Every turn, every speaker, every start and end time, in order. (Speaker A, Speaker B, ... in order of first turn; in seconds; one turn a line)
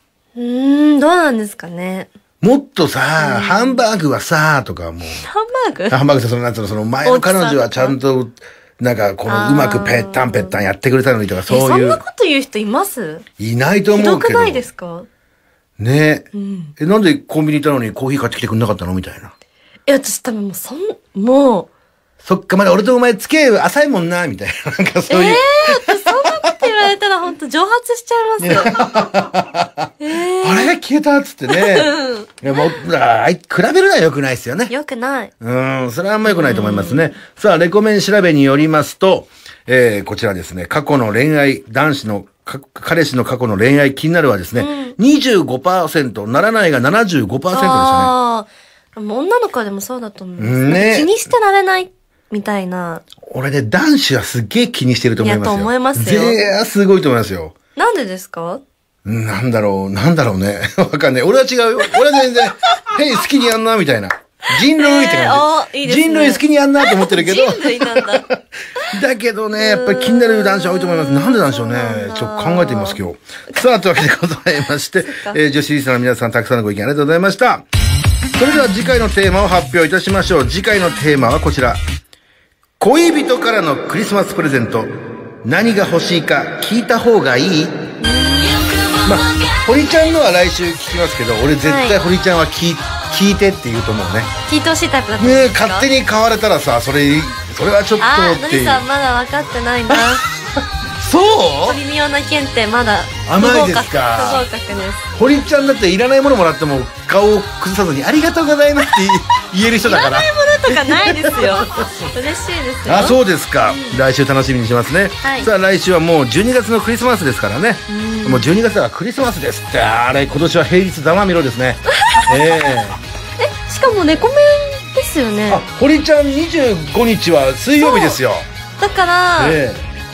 Speaker A: 0.4-2.1
Speaker B: 2.4-5.2
Speaker A: 3.2-3.8
Speaker A: 5.2-6.0
Speaker B: 5.9-12.0
Speaker A: 7.0-8.0
Speaker A: 9.3-10.6
Speaker A: 11.5-13.3
Speaker B: 13.4-14.6
Speaker A: 13.9-15.1
Speaker B: 15.8-19.3
Speaker A: 16.3-16.7
Speaker A: 19.9-21.7
Speaker B: 22.2-26.7
Speaker A: 25.1-28.9
Speaker B: 28.4-34.7
Speaker A: 30.0-30.8
Speaker A: 31.5-32.8
Speaker A: 34.7-35.3
Speaker B: 35.4-48.1
Speaker A: 36.2-37.1
Speaker A: 44.6-45.0
Speaker A: 47.5-53.0
Speaker B: 50.4-51.1
Speaker B: 53.2-57.5
Speaker A: 55.2-56.4
Speaker A: 57.8-58.6
Speaker B: 59.0-77.7
Speaker A: 62.0-62.4
Speaker A: 64.6-68.2
Speaker A: 69.6-73.0
Speaker A: 75.0-75.4
Speaker B: 78.4-81.8
Speaker B: 82.8-84.9
Speaker B: 85.4-87.8
Speaker A: 88.0-89.0
Speaker B: 89.0-94.3
Speaker A: 91.6-92.0
Speaker A: 94.5-95.9
Speaker B: 95.2-98.8
Speaker A: 98.0-100.2
Speaker B: 101.0-101.8
Speaker A: 101.6-105.1
Speaker B: 103.3-104.5
Speaker B: 105.2-112.0
Speaker A: 109.8-114.0
Speaker B: 112.9-123.0
Speaker A: 115.2-115.5
Speaker A: 117.9-118.5
Speaker A: 121.9-122.4
Speaker A: 123.4-125.6
Speaker B: 125.5-128.5
Speaker A: 127.8-128.2
Speaker A: 128.8-129.6
Speaker B: 129.4-129.9